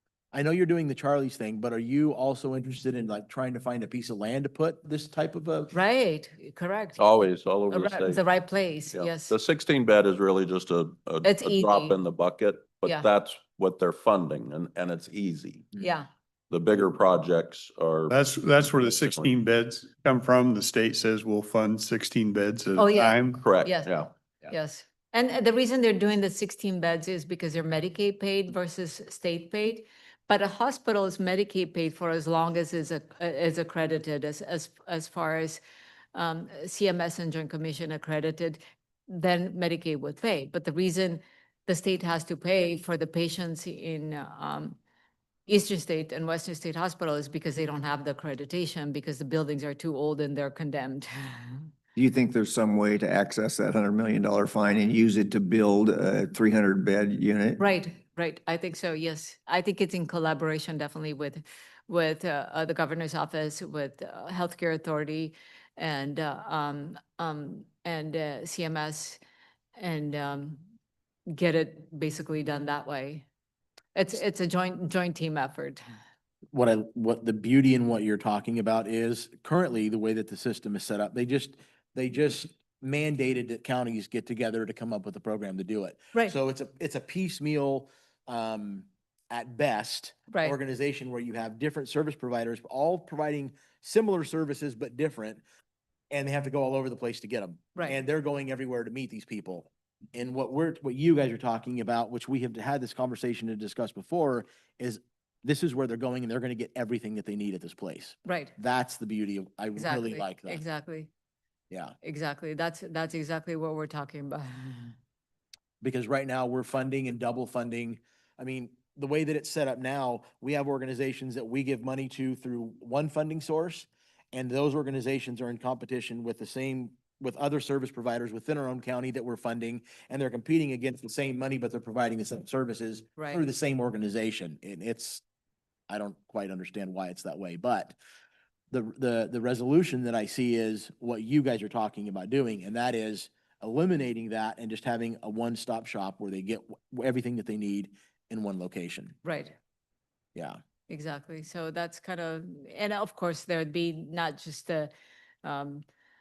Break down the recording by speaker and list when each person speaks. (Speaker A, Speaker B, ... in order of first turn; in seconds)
Speaker A: 0.3-5.7, 76.5-95.4, 96.1-110.6, 111.7-112.0, 115.8-135.2, 135.9-138.0, 138.7-149.2
Speaker B: 5.7-7.1, 7.7-9.3, 11.2-12.0, 15.8-16.1, 22.8-35.6, 36.1-44.8, 45.5-51.7, 57.6-69.2, 69.8-70.6, 71.3-73.2, 73.9-75.8, 108.2-108.5, 109.8-111.1, 112.0-114.9, 133.2-133.4, 149.2-149.5, 150.9-154.9, 155.4-155.8
Speaker C: 7.0-8.2, 8.9-15.7, 16.5-19.3, 23.4-24.1
Speaker D: 18.1-23.4
Speaker E: 52.0-57.6